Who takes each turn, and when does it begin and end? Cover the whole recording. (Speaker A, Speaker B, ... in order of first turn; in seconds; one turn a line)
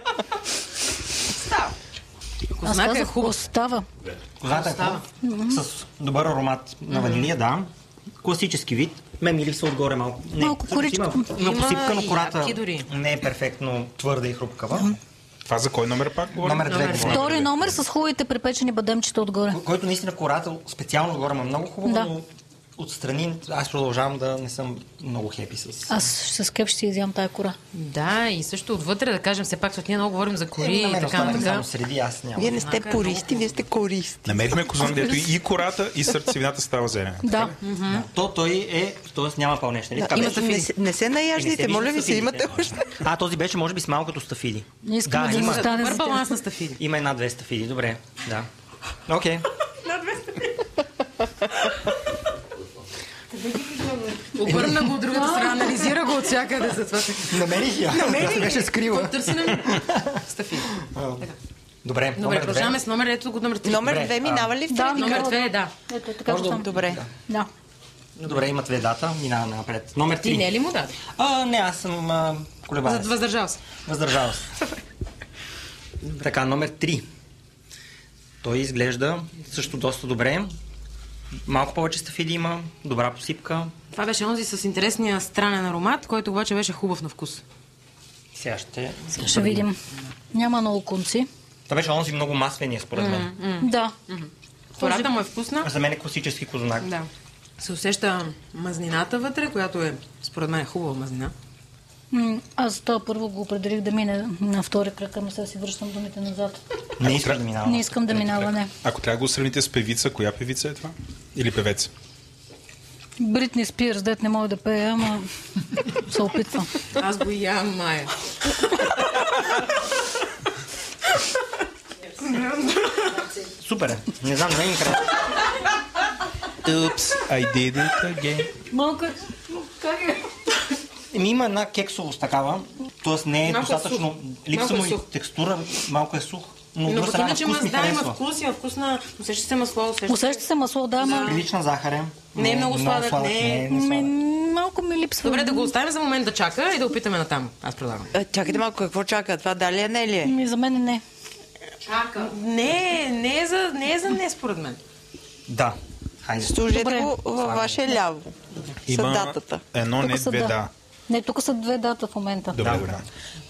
Speaker A: 1.4-1.7
Speaker B: 2.6-3.4
Speaker C: 2.6-3.9
Speaker D: 4.4-7.7
Speaker B: 4.4-5.0
Speaker C: 5.2-5.6
Speaker B: 6.9-7.3
Speaker D: 8.2-15.0
Speaker C: 10.4-11.3
Speaker B: 11.4-12.9
Speaker E: 15.4-17.8
Speaker D: 16.4-17.3
Speaker B: 16.6-17.2
Speaker C: 17.1-19.6
Speaker D: 19.5-26.0
Speaker C: 25.9-27.6
Speaker B: 27.7-31.7
Speaker D: 30.6-32.6
Speaker B: 32.4-33.6
Speaker A: 32.4-35.1
Speaker E: 34.2-37.5
Speaker C: 37.2-37.5
Speaker B: 37.6-38.0
Speaker D: 37.9-40.7
Speaker A: 40.0-42.9
Speaker D: 41.3-45.7
Speaker C: 44.8-46.2
Speaker B: 45.2-46.8
Speaker D: 46.8-48.5
Speaker D: 49.1-49.5
Speaker B: 54.1-61.4
Speaker D: 54.5-54.9
Speaker C: 55.1-55.9
Speaker D: 57.2-60.2
Speaker D: 60.8-61.3
Speaker D: 61.8-62.8
Speaker B: 62.1-64.1
Speaker A: 63.6-65.3
Speaker D: 63.7-64.5
Speaker C: 64.7-66.7
Speaker B: 64.8-65.7
Speaker D: 66.2-67.1
Speaker A: 66.4-67.0
Speaker B: 68.2-68.5
Speaker D: 68.2-70.5
Speaker B: 70.2-71.0
Speaker D: 71.1-73.2
Speaker B: 72.8-73.6
Speaker D: 73.8-74.5
Speaker D: 76.2-77.0
Speaker D: 78.4-80.5
Speaker D: 81.4-83.7
Speaker B: 83.9-87.4
Speaker D: 88.3-89.7
Speaker C: 89.1-89.8
Speaker C: 90.3-91.3
Speaker D: 91.7-93.3
Speaker B: 92.9-95.7
Speaker C: 93.6-93.9
Speaker D: 95.6-96.9
Speaker B: 96.8-97.1
Speaker B: 97.6-101.3
Speaker C: 102.1-106.6
Speaker D: 107.0-108.5
Speaker E: 107.0-107.4
Speaker C: 107.6-108.7
Speaker E: 108.2-111.9
Speaker C: 113.2-115.3
Speaker C: 115.9-116.7
Speaker B: 117.0-118.1
Speaker B: 122.2-123.1
Speaker D: 123.6-125.2
Speaker E: 126.6-128.5
Speaker C: 128.7-130.2
Speaker D: 131.1-138.2
Speaker B: 133.4-135.0
Speaker B: 136.9-140.4
Speaker C: 140.1-141.4
Speaker B: 141.0-141.4
Speaker D: 141.2-144.1
Speaker B: 142.3-143.7
Speaker C: 143.7-145.7
Speaker B: 145.2-148.1
Speaker A: 148.1-150.3
Speaker C: 150.2-151.0
Speaker B: 152.1-154.8
Speaker D: 155.5-156.7
Speaker A: 156.4-158.3
Speaker C: 156.7-157.1
Speaker D: 157.4-157.8
Speaker A: 158.9-159.6
Speaker E: 158.9-160.7
Speaker C: 160.0-160.6
Speaker C: 161.1-162.6
Speaker E: 162.5-163.1
Speaker D: 162.6-163.0